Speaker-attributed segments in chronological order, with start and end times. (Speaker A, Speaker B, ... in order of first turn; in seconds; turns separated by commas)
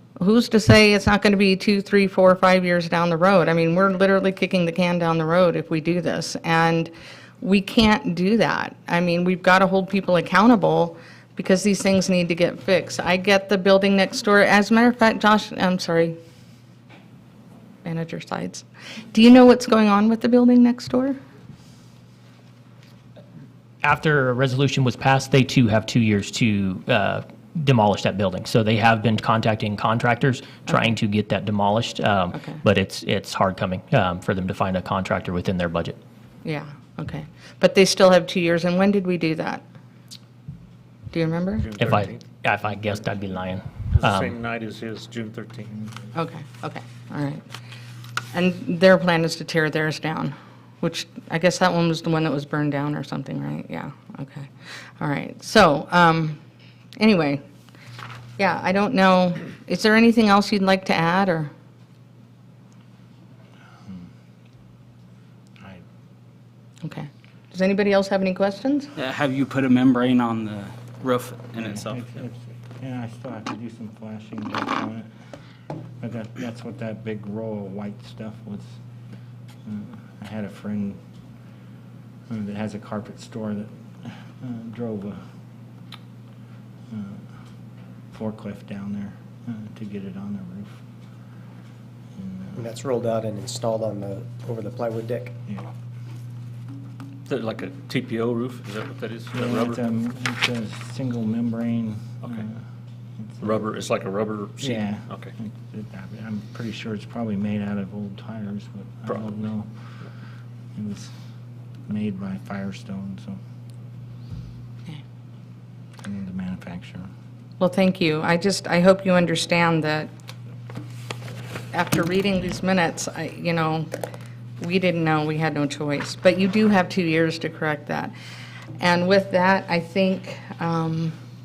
Speaker A: 0.2-16.2, Speaker A: 17.9-21.2, Speaker B: 23.8-36.0, Speaker A: 32.3-32.6, Speaker A: 36.4-39.6, Speaker A: 41.1-41.7, Speaker C: 41.6-42.3, Speaker B: 41.8-44.4, Speaker C: 43.9-45.7, Speaker A: 46.1-47.4, Speaker A: 48.3-56.4, Speaker A: 57.0-57.4, Speaker A: 58.4-61.5, Speaker A: 66.8-68.9, Speaker D: 69.0-72.1, Speaker E: 71.5-75.1, Speaker E: 76.0-78.7, Speaker E: 79.7-81.0, Speaker E: 82.3-85.2, Speaker E: 86.9-87.2, Speaker E: 88.1-90.8, Speaker E: 92.2-92.7, Speaker F: 92.6-95.4, Speaker C: 97.3-99.8, Speaker E: 99.3-102.6, Speaker C: 102.2-102.5, Speaker E: 103.2-103.6, Speaker C: 103.4-105.3, Speaker E: 104.6-109.7, Speaker E: 110.8-111.1, Speaker E: 111.9-113.4, Speaker E: 116.0-117.1, Speaker A: 117.6-120.1, Speaker A: 121.7-123.9, Speaker A: 124.6-128.1, Speaker A: 128.8-131.2